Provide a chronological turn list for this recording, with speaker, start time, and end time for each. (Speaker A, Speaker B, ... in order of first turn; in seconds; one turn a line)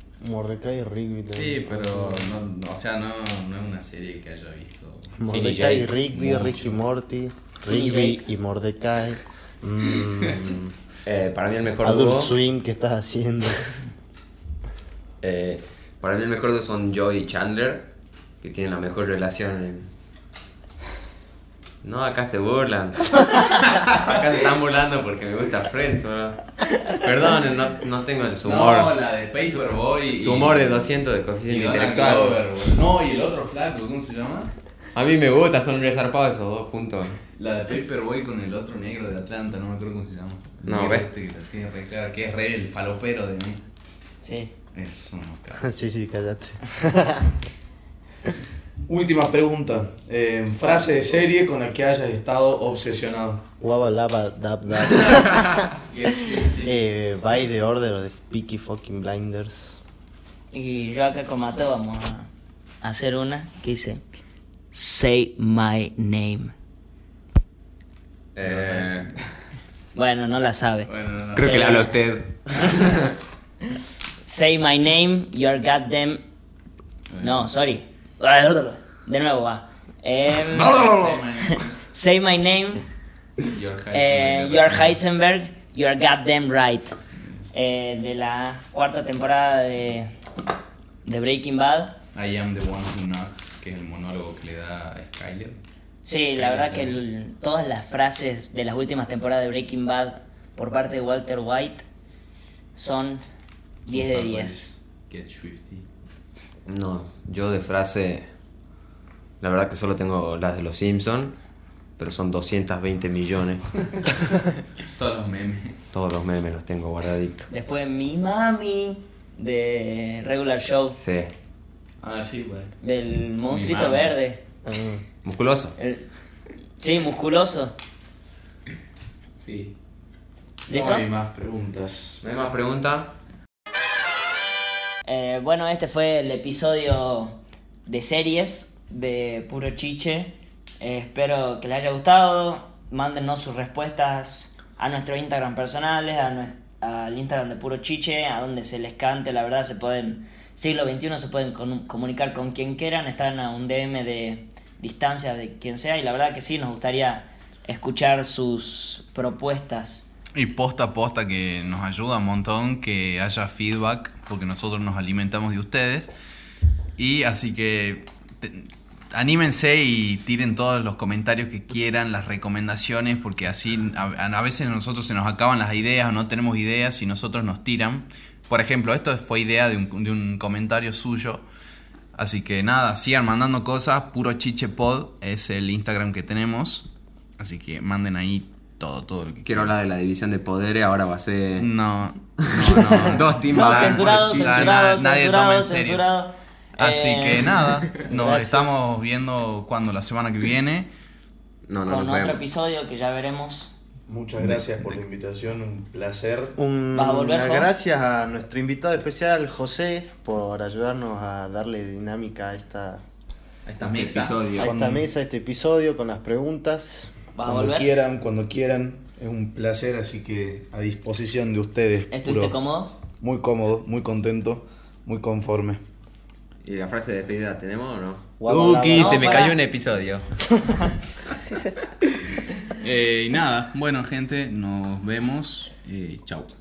Speaker A: 0.2-2.3
Speaker B: 1.3-5.2
Speaker A: 5.2-10.7
Speaker C: 5.3-6.5
Speaker B: 6.1-6.6
Speaker D: 7.7-8.2
Speaker B: 10.2-10.5
Speaker C: 11.1-12.3
Speaker A: 11.8-13.8
Speaker C: 15.2-19.9
Speaker C: 21.8-32.7
Speaker B: 23.8-24.1
Speaker B: 28.4-34.5
Speaker C: 34.9-37.2
Speaker B: 37.4-43.6
Speaker C: 40.6-41.1
Speaker D: 44.2-44.5
Speaker B: 44.7-45.7
Speaker A: 45.6-47.4
Speaker E: 48.9-53.4
Speaker A: 53.6-55.7
Speaker B: 54.9-56.8
Speaker A: 56.6-59.8
Speaker D: 60.5-62.3
Speaker D: 62.8-64.0
Speaker D: 64.7-66.5
Speaker C: 68.3-69.1
Speaker B: 68.4-69.2
Speaker D: 69.9-71.9
Speaker B: 70.9-71.8
Speaker C: 71.3-73.1
Speaker D: 74.2-76.2
Speaker B: 77.1-77.5
Speaker D: 77.2-82.8
Speaker B: 80.4-81.8
Speaker B: 83.4-85.0
Speaker D: 83.9-87.0
Speaker D: 87.5-90.1
Speaker D: 91.0-92.0
Speaker B: 92.1-95.6
Speaker D: 96.0-101.8
Speaker B: 96.4-96.9
Speaker D: 102.7-103.2
Speaker D: 103.9-104.7
Speaker B: 103.9-105.9
Speaker C: 106.7-108.3
Speaker C: 109.4-111.4
Speaker C: 112.0-113.7
Speaker B: 114.8-115.8
Speaker C: 115.9-117.5
Speaker D: 117.5-121.0
Speaker C: 120.9-121.3
Speaker B: 122.0-122.7
Speaker D: 122.8-124.4
Speaker B: 123.5-124.1
Speaker A: 124.6-125.0
Speaker C: 125.2-125.8
Speaker D: 125.8-126.1
Speaker D: 126.8-127.8
Speaker B: 129.4-129.7
Speaker D: 130.7-131.1
Speaker E: 130.7-132.2
Speaker C: 132.2-133.1
Speaker D: 135.1-160.0
Speaker B: 160.3-166.1
Speaker B: 167.0-181.4
Speaker B: 182.1-189.7
Speaker C: 189.4-191.7
Speaker B: 191.6-196.1
Speaker C: 192.4-194.7
Speaker D: 193.5-197.6
Speaker B: 196.8-200.9
Speaker A: 198.1-198.9
Speaker C: 201.7-202.4
Speaker D: 201.9-203.7
Speaker E: 204.1-206.6
Speaker B: 204.4-205.0
Speaker A: 206.6-213.0
Speaker D: 206.9-207.7
Speaker B: 213.7-214.9
Speaker C: 213.8-214.9
Speaker A: 214.6-217.1
Speaker D: 217.3-217.9
Speaker E: 217.4-222.6
Speaker D: 222.1-223.0
Speaker E: 223.2-225.8
Speaker C: 226.6-230.3
Speaker A: 228.4-229.4
Speaker D: 228.9-229.6
Speaker B: 232.7-236.5